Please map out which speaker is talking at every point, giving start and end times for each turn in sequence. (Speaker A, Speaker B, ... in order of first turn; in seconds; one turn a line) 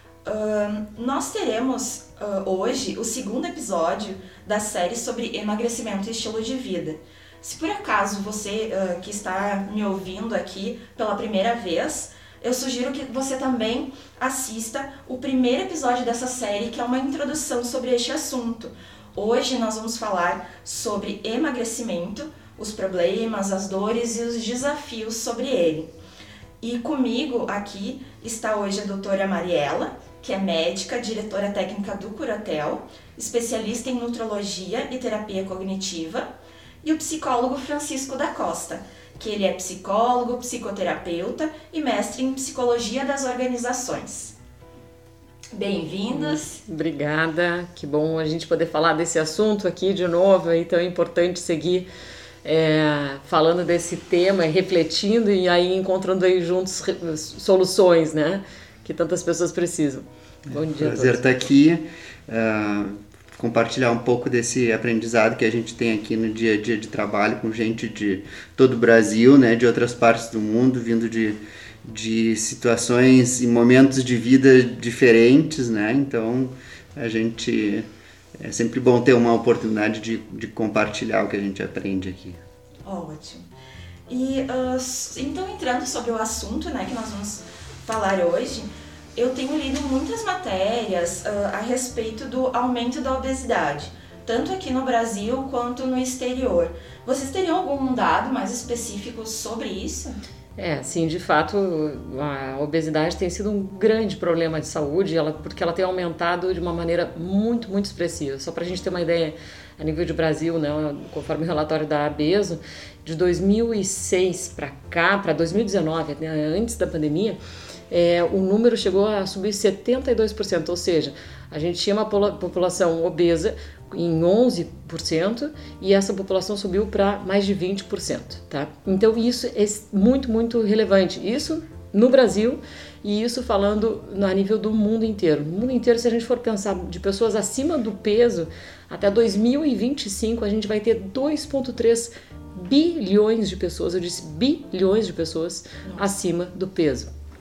Speaker A: 0.2-25.9
Speaker A: 26.6-36.3
Speaker A: 36.8-44.4
Speaker A: 45.5-46.6
Speaker B: 46.1-51.9
Speaker B: 52.4-61.2
Speaker C: 60.5-77.9
Speaker C: 78.4-82.4
Speaker A: 82.8-83.5
Speaker A: 84.1-100.2
Speaker B: 100.6-117.4
Speaker B: 117.9-147.1
Speaker A: 145.8-146.1